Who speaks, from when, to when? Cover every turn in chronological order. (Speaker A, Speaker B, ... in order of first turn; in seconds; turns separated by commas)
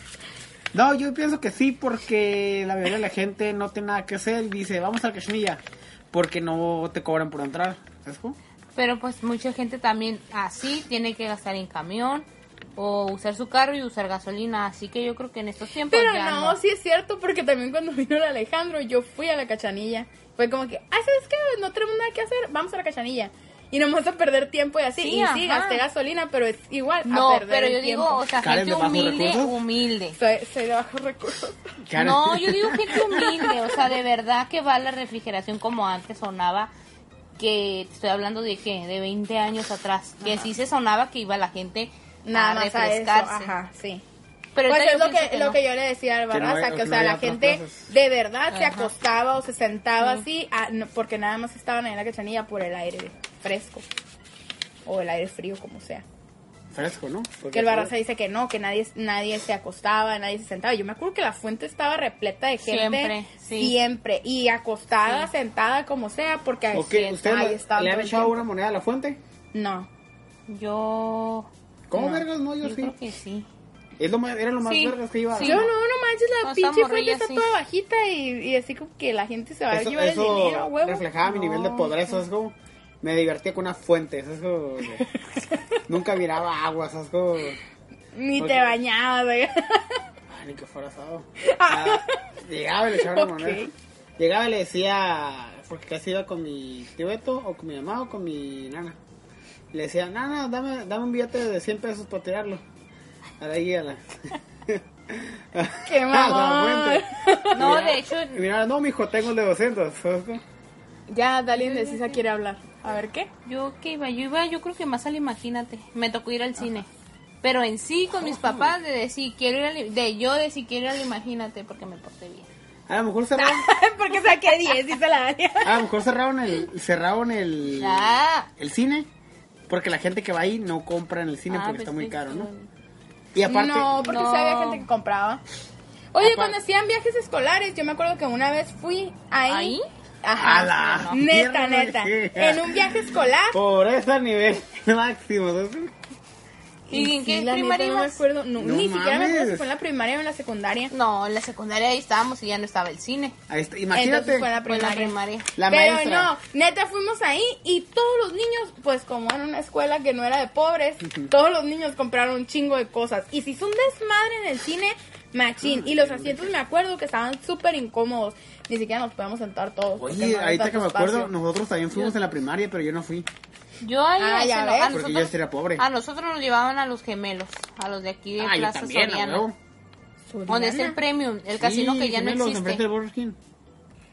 Speaker A: 0.7-8.4, Speaker B: 8.8-16.6, Speaker C: 15.9-28.2, Speaker B: 25.0-25.8, Speaker B: 27.1-30.2, Speaker A: 28.4-29.6, Speaker C: 30.2-31.6, Speaker A: 31.8-33.4, Speaker B: 32.0-36.7, Speaker B: 37.4-43.5, Speaker C: 40.2-40.5, Speaker C: 42.2-44.0, Speaker B: 44.5-45.6, Speaker C: 44.7-53.9, Speaker A: 46.3-47.9, Speaker B: 48.5-48.9, Speaker C: 54.9-56.0, Speaker A: 56.7-57.9, Speaker C: 57.5-68.4, Speaker B: 62.6-63.8, Speaker A: 66.7-69.2, Speaker C: 69.5-69.9, Speaker B: 70.5-71.5, Speaker A: 71.9-72.9, Speaker B: 72.0-73.5, Speaker A: 74.0-75.7, Speaker B: 74.7-75.7, Speaker C: 75.4-82.0, Speaker B: 76.4-77.5, Speaker A: 79.7-85.1, Speaker A: 85.9-87.6, Speaker C: 88.2-90.0, Speaker A: 88.4-88.8, Speaker A: 90.3-99.0, Speaker C: 91.4-92.2, Speaker C: 92.9-93.7, Speaker A: 99.7-102.6, Speaker A: 103.4-110.4, Speaker C: 105.8-107.8, Speaker B: 107.5-108.4, Speaker C: 111.1-113.3, Speaker B: 111.6-112.2, Speaker B: 113.5-116.9, Speaker B: 117.4-122.5, Speaker A: 118.2-118.8, Speaker A: 122.9-123.7, Speaker C: 123.4-125.9, Speaker A: 125.6-129.1, Speaker B: 127.7-128.5, Speaker A: 129.7-132.5, Speaker B: 131.5-132.7, Speaker A: 133.3-134.0, Speaker C: 133.4-135.4, Speaker B: 134.0-134.8, Speaker C: 136.1-143.6, Speaker A: 136.2-136.6, Speaker B: 139.5-139.9, Speaker A: 140.4-145.9, Speaker B: 140.8-141.2, Speaker C: 146.9-150.9, Speaker B: 146.9-148.2, Speaker A: 148.6-149.7, Speaker B: 150.9-153.4, Speaker A: 153.5-154.5, Speaker C: 153.9-155.1, Speaker B: 154.6-155.5, Speaker A: 155.6-156.3, Speaker C: 155.7-171.3, Speaker A: 165.6-166.5, Speaker A: 170.0-173.3, Speaker B: 173.8-179.4, Speaker C: 174.2-174.9, Speaker A: 174.9-175.8, Speaker A: 178.4-179.6, Speaker C: 180.3-181.0, Speaker B: 180.5-182.8, Speaker A: 181.6-183.4